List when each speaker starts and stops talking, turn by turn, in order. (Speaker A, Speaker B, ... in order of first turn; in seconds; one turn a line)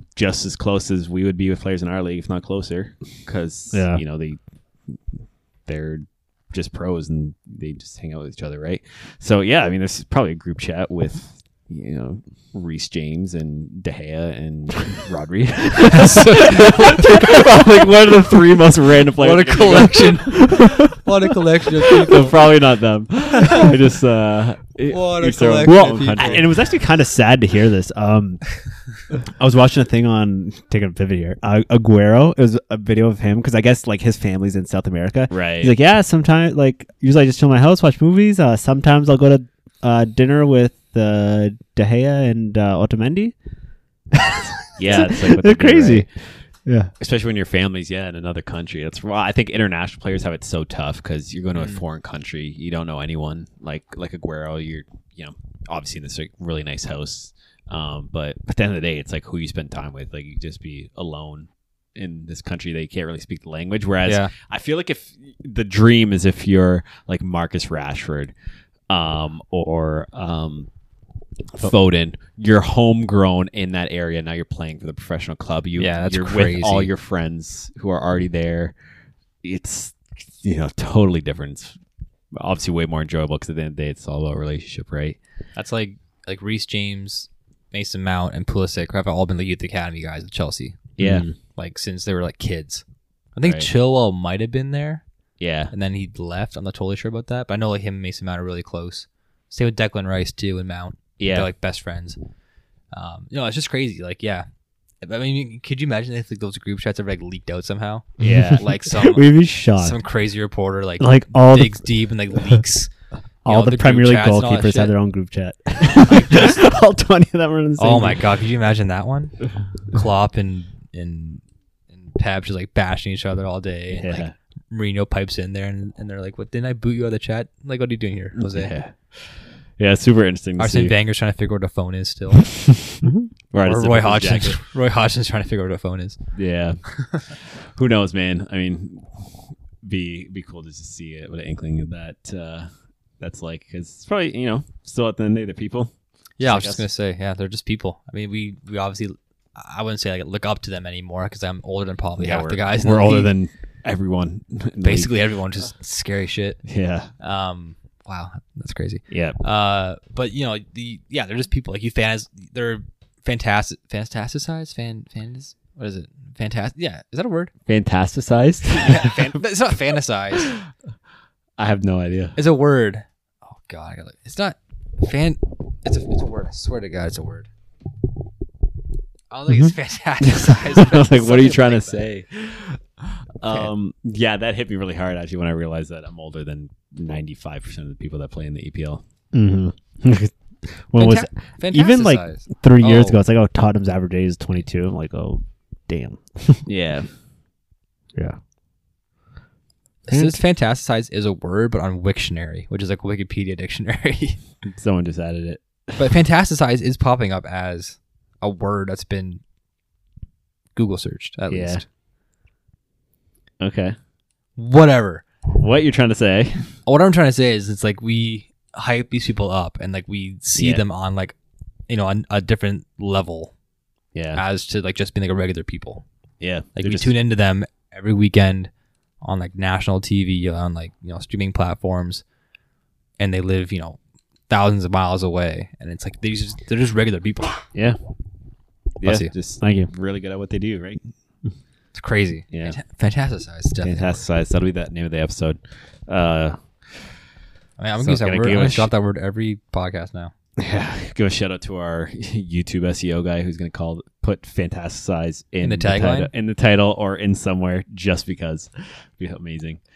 Speaker A: 0.1-20.7
Speaker B: 3.7-4.0
Speaker C: 15.9-17.0
Speaker C: 19.2-22.3
Speaker A: 21.9-26.6
Speaker C: 24.9-26.4
Speaker B: 25.6-28.6
Speaker B: 29.1-43.3
Speaker A: 35.3-35.7
Speaker B: 44.1-46.1
Speaker A: 44.7-46.1
Speaker B: 46.6-46.9
Speaker A: 47.0-68.3
Speaker C: 64.0-64.3
Speaker A: 68.9-70.7
Speaker A: 71.5-78.8
Speaker C: 75.8-76.9
Speaker A: 79.4-81.8
Speaker A: 82.3-85.2
Speaker C: 85.5-90.9
Speaker A: 91.0-91.3
Speaker B: 91.0-91.3
Speaker C: 91.5-92.8
Speaker C: 93.3-95.0
Speaker A: 93.4-93.7
Speaker A: 95.4-95.7
Speaker C: 95.7-102.2
Speaker A: 101.2-101.5
Speaker C: 102.9-104.5
Speaker C: 105.0-112.9
Speaker A: 108.2-108.7
Speaker B: 108.2-110.0
Speaker B: 111.0-111.8
Speaker C: 113.4-114.9
Speaker B: 113.4-118.3
Speaker C: 116.0-116.6
Speaker C: 117.8-119.4
Speaker C: 119.9-128.7
Speaker A: 123.9-124.3
Speaker A: 128.3-130.9
Speaker C: 130.6-132.5
Speaker A: 132.4-134.6
Speaker B: 133.0-133.3
Speaker C: 133.6-136.2
Speaker A: 136.3-142.7
Speaker C: 136.9-137.2
Speaker A: 143.2-146.8
Speaker C: 146.4-153.3
Speaker A: 152.2-155.1
Speaker C: 154.8-156.6
Speaker A: 156.6-157.1
Speaker C: 157.2-167.5
Speaker A: 159.1-159.4
Speaker A: 167.7-169.4
Speaker C: 168.8-170.5
Speaker A: 170.3-170.6
Speaker A: 171.6-172.4
Speaker C: 172.3-177.5
Speaker C: 179.3-182.1
Speaker A: 180.7-189.0
Speaker B: 189.3-196.7
Speaker C: 190.9-193.2
Speaker A: 196.7-197.1
Speaker C: 200.1-204.4
Speaker B: 200.1-200.4
Speaker A: 204.7-205.9
Speaker C: 206.0-209.4
Speaker C: 210.7-211.8
Speaker A: 211.5-211.8
Speaker A: 213.6-213.9
Speaker C: 214.6-215.2
Speaker A: 215.4-216.7
Speaker C: 216.8-221.3
Speaker A: 220.6-220.8
Speaker C: 221.9-223.5
Speaker A: 224.1-224.4
Speaker C: 224.3-226.0
Speaker A: 226.4-227.1
Speaker C: 226.8-228.7
Speaker C: 229.2-232.2
Speaker C: 233.2-234.0
Speaker C: 234.5-237.6
Speaker A: 237.7-238.0
Speaker A: 239.0-241.0
Speaker C: 239.0-239.3
Speaker B: 239.6-239.9
Speaker C: 241.9-244.2
Speaker A: 242.5-242.8
Speaker A: 243.8-247.1
Speaker C: 247.8-250.3
Speaker A: 248.0-248.9
Speaker A: 250.6-259.8
Speaker C: 255.6-256.3